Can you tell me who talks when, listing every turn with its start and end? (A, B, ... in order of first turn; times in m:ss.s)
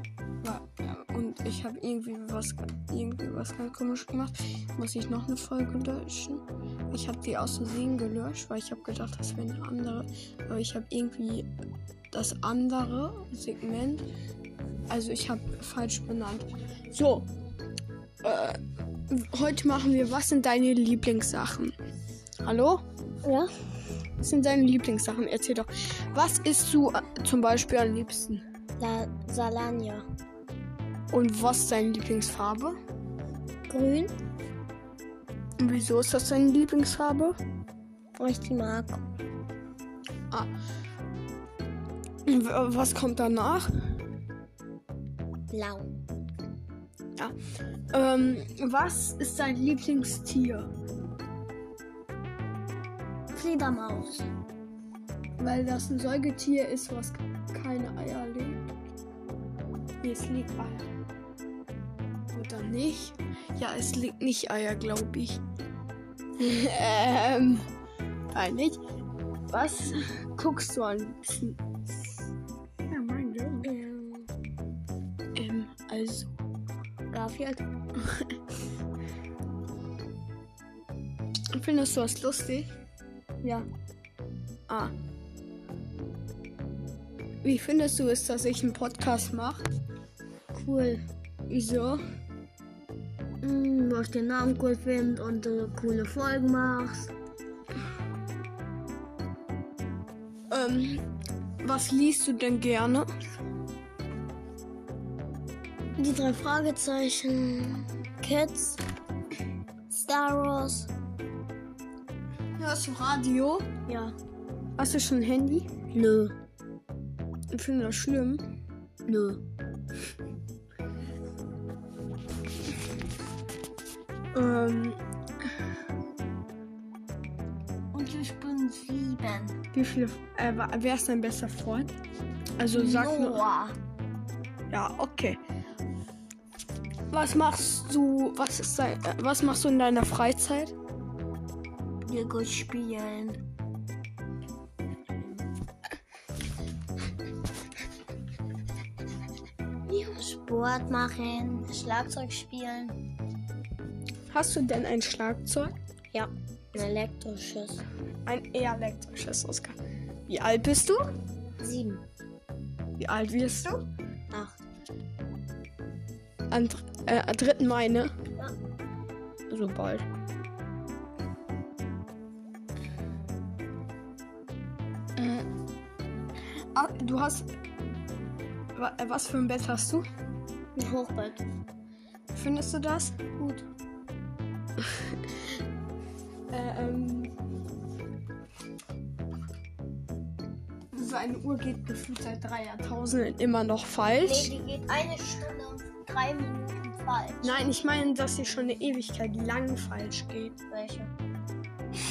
0:00.4-0:11.5 A
0:12.1-0:14.0 A
0:14.9-0:17.3 A
0:18.2-0:21.7 A
0:22.4-0:22.8 A
0:23.2-0:23.5 B
0:24.2-0:28.4 A
0:28.8-0:30.1 B
0:31.1-0:32.8 A
0:33.7-0:34.1 B
0:35.6-0:37.4 A
0:38.2-0:39.0 B
0:42.3-0:43.7 A
0:45.5-0:45.9 B
0:47.9-0:50.7 A
0:53.3-0:54.3 B
0:55.4-0:58.6 A
1:00.0-1:00.9 A
1:02.3-1:05.4 A
1:06.4-1:07.7 A
1:08.3-1:08.8 A
1:09.5-1:12.0 A
1:12.9-1:13.7 A
1:13.6-1:14.3 B
1:15.4-1:16.3 A
1:17.1-1:17.6 B
1:21.6-1:22.7 A
1:24.7-1:24.9 A
1:27.4-1:29.6 A
1:30.5-1:31.0 B
1:31.5-1:32.0 A
1:33.4-1:37.1 B
1:40.5-1:41.0 A
1:41.6-1:43.1 A
1:46.0-1:48.8 B
1:49.9-1:50.9 B
1:52.6-1:53.7 A
1:53.9-1:54.2 B
1:54.8-1:55.7 A
1:55.9-1:56.4 B
1:57.5-1:58.4 A
1:59.1-1:59.4 B
2:04.3-2:05.0 A
2:07.9-2:09.6 B
2:09.7-2:12.0 A
2:12.6-2:13.4 A
2:12.7-2:13.8 B
2:14.7-2:15.4 A
2:17.1-2:20.7 A
2:22.1-2:23.4 B
2:29.9-2:33.0 B
2:34.3-2:35.8 A
2:36.1-2:37.8 B
2:38.3-2:39.8 A
2:40.3-2:41.0 A
2:41.6-2:42.0 B
2:43.0-2:43.8 A
2:46.5-2:48.1 A
2:49.5-2:50.1 A
2:55.2-2:55.5 A
2:56.7-2:57.5 A
2:58.8-3:00.0 A
3:00.8-3:01.4 B
3:02.3-3:03.6 A
3:06.5-3:07.3 A
3:10.9-3:14.5 A
3:14.1-3:17.6 B
3:17.4-3:20.6 A
3:20.7-3:21.1 B